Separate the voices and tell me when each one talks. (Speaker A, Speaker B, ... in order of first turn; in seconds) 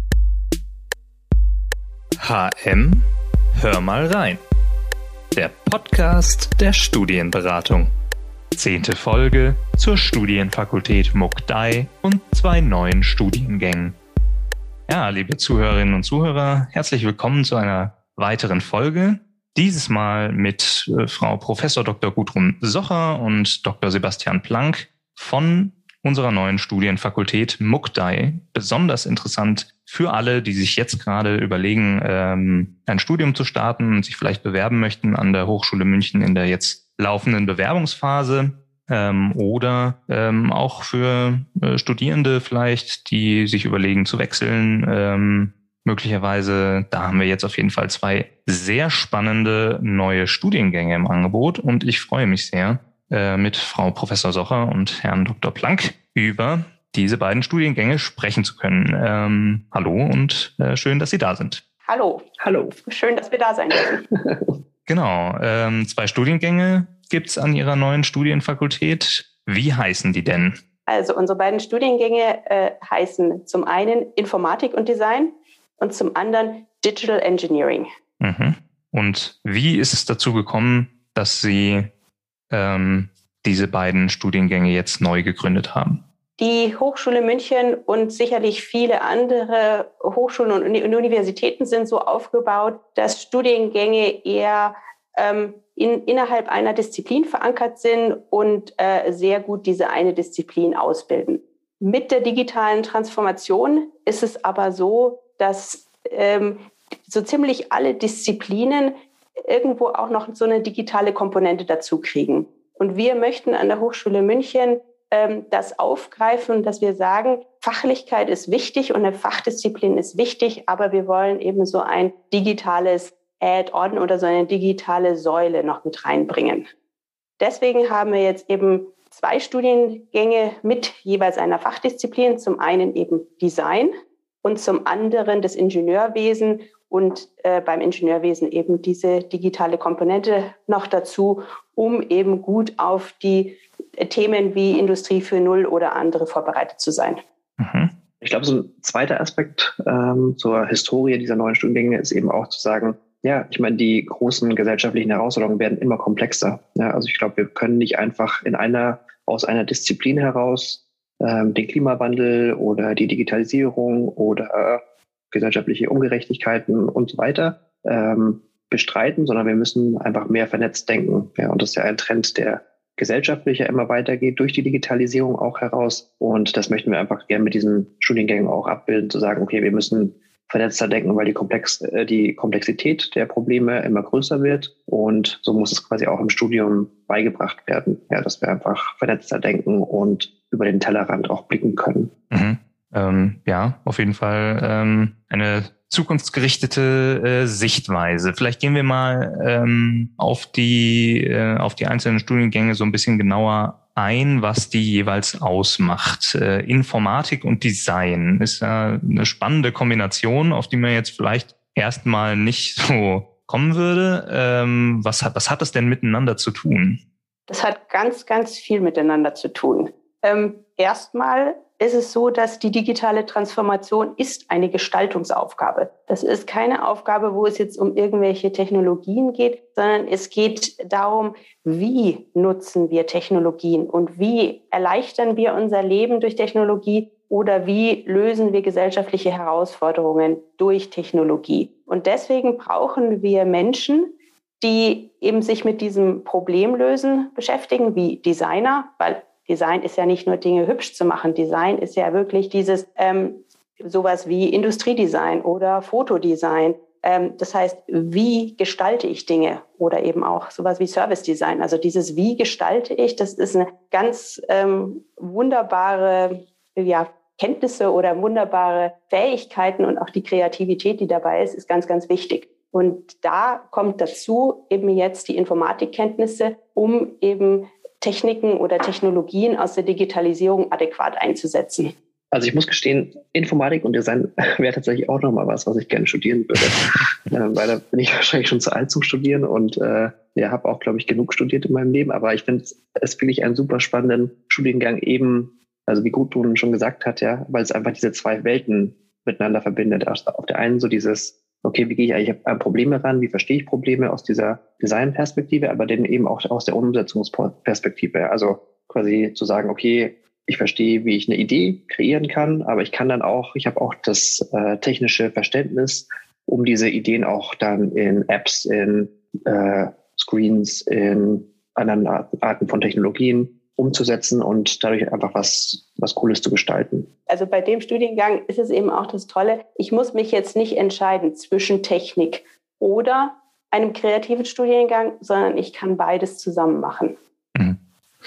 Speaker A: 2.2-3.0, 3.6-4.4, 5.3-7.9, 8.6-13.9, 14.9-61.6, 64.9-70.6, 78.2-81.9, 82.5-86.0, 147.6-147.9, 192.3-217.0
Speaker B: 61.9-64.0, 70.9-77.9, 86.4-108.9, 109.5-126.6, 127.4-133.9, 134.4-147.2, 217.5-244.1, 244.6-281.9, 327.3-337.1
Speaker C: 62.4-62.8, 63.8-64.5, 148.2-164.8, 165.3-192.1, 282.3-327.1